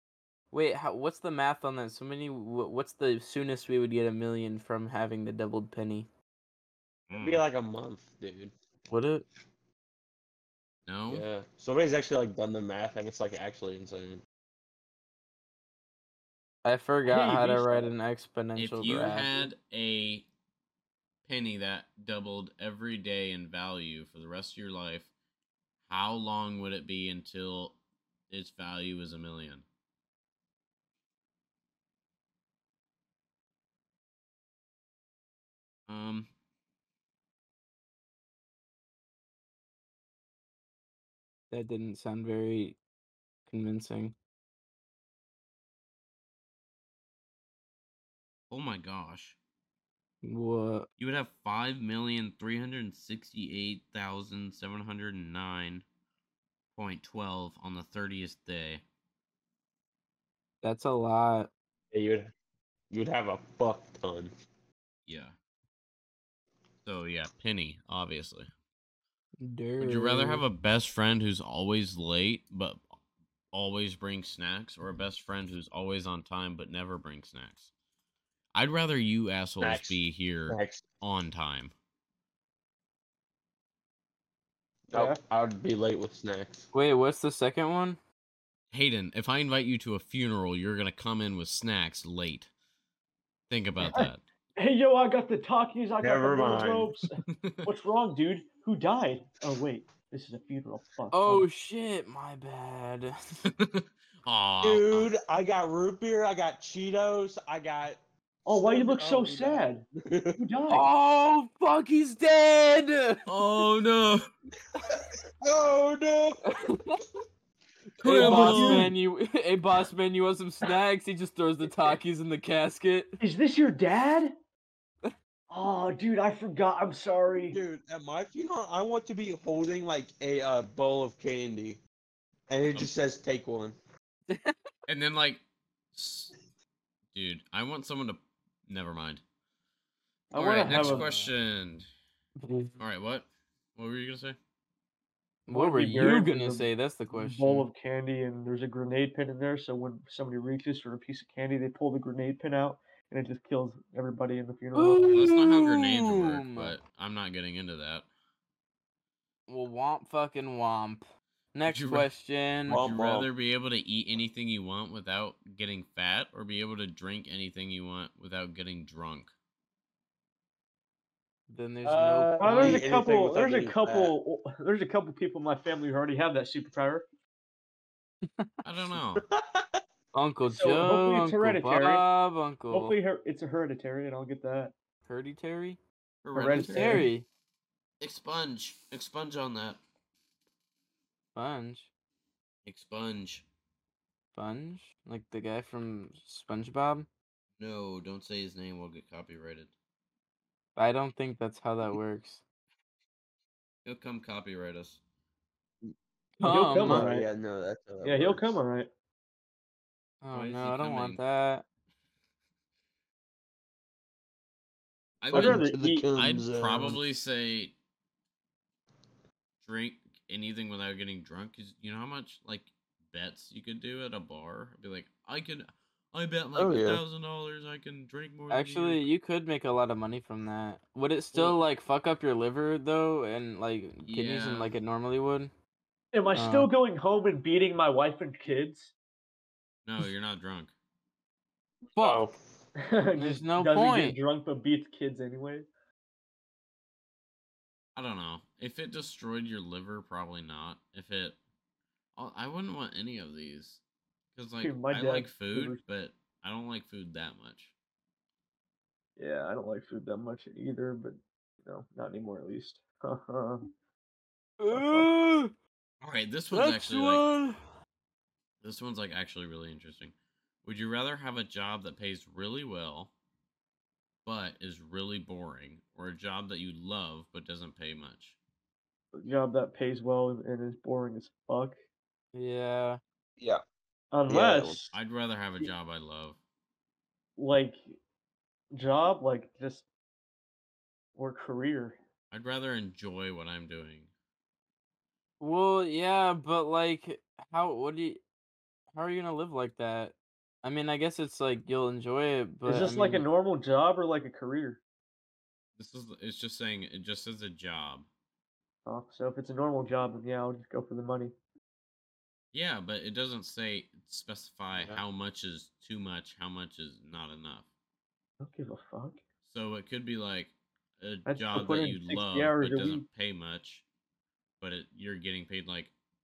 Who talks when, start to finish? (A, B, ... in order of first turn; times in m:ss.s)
0:00.5-0:06.1 A
0:07.1-0:07.4 B
0:07.2-0:08.5 C
0:08.9-0:09.2 A
0:10.9-0:11.3 B
0:11.1-0:14.2 C
0:16.6-0:19.5 A
0:17.0-0:17.9 D
0:18.6-0:20.3 B
0:21.2-0:25.1 B
0:25.9-0:27.8 B
0:28.3-0:29.6 B
0:35.9-0:36.3 B
0:41.5-0:42.8 A
0:43.5-0:44.2 A
0:48.5-0:49.4 B
0:50.2-0:50.9 A
0:51.0-0:55.8 B
0:56.8-0:58.8 B
1:00.6-1:01.5 A
1:01.9-1:02.3 C
1:02.9-1:04.3 C
1:05.1-1:05.3 B
1:06.8-1:08.5 B
1:09.4-1:10.5 A
1:09.8-1:12.8 B
1:13.5-1:17.7 B
1:18.5-1:21.7 B
1:19.6-1:20.8 C
1:24.9-1:26.7 C
1:24.9-1:25.2 D
1:26.7-1:28.0 A
1:28.7-1:32.5 B
1:33.5-1:34.2 B
1:33.8-1:41.5 D
1:36.0-1:36.9 C
1:37.3-1:37.6 B
1:41.1-1:43.4 A
1:43.5-1:45.1 B
1:44.6-1:50.4 C
1:48.5-1:49.8 D
1:50.4-1:50.9 D
1:50.7-1:53.2 A
1:53.3-1:54.3 B
1:54.9-1:56.4 C
1:56.5-1:57.0 A
1:58.0-2:03.2 A
1:58.0-1:58.9 B
1:58.1-1:58.9 D
2:03.2-2:04.3 D
2:05.5-2:07.6 D
2:07.5-2:11.8 C
2:12.5-2:13.8 C
2:14.3-2:14.6 A
2:14.9-2:15.4 B
2:15.9-2:16.4 B
2:17.1-2:19.2 B
2:20.3-2:21.1 D
2:20.3-2:21.9 B
2:20.6-2:21.3 A
2:22.4-2:22.8 A
2:22.8-2:24.4 B
2:25.5-2:27.7 A
2:25.5-2:35.1 D
2:34.8-2:36.8 A
2:35.1-2:38.1 B
2:39.5-2:42.8 A
2:41.7-2:42.1 B
2:42.7-2:43.3 C
2:42.7-2:49.3 B
2:51.5-2:52.9 A
2:51.8-2:54.1 C
2:52.4-2:57.0 D
2:58.6-2:59.2 B
2:59.2-2:59.7 C
3:00.1-3:03.0 A
3:00.5-3:02.1 D
3:02.7-3:04.7 D
3:05.1-3:05.8 A
3:06.2-3:07.1 B
3:06.3-3:07.1 D
3:06.7-3:07.3 A
3:08.0-3:09.8 B
3:11.4-3:11.9 A
3:12.6-3:13.4 B
3:14.4-3:17.1 A
3:17.6-3:19.7 B
3:20.8-3:22.4 A
3:23.8-3:25.0 B
3:26.4-3:27.1 A
3:26.4-3:27.3 D
3:26.8-3:28.6 C
3:28.0-3:28.9 D
3:30.2-3:31.6 A
3:30.3-3:31.2 B
3:35.2-3:37.8 B
3:35.3-3:37.2 C
3:35.3-3:36.0 D
3:39.6-3:49.0 B
3:46.6-3:47.0 C
3:48.5-3:55.5 A
3:51.3-3:51.6 B
3:54.0-3:54.7 B
3:56.1-3:58.9 D
3:56.3-3:56.7 A
3:59.9-4:00.7 B
4:02.0-4:02.2 A
4:02.0-4:02.3 C
4:02.8-4:05.7 D
4:03.2-4:04.2 A
4:08.0-4:11.4 B
4:12.2-4:13.8 B
4:14.4-4:17.7 B
4:14.6-4:15.8 D
4:19.2-4:23.6 D
4:24.6-4:25.5 A
4:24.7-4:25.1 D
4:26.0-4:27.2 B
4:26.5-4:27.6 A
4:28.6-4:33.1 B
4:34.2-4:38.4 B
4:39.1-4:41.8 D
4:42.3-4:43.0 A
4:44.1-4:45.0 D
4:44.3-4:44.9 C
4:44.9-4:46.4 B
4:47.4-4:48.0 D
4:48.7-4:49.8 D
4:51.2-4:52.0 D
4:52.3-4:54.1 B
4:55.4-4:58.2 A
4:58.9-5:03.2 A
5:02.7-5:04.8 D
5:05.8-5:08.1 B
5:08.9-5:11.3 D
5:12.5-5:17.7 B
5:14.7-5:15.0 C
5:18.4-5:19.2 D
5:19.4-5:23.8 B
5:21.3-5:23.0 D
5:24.6-5:25.9 B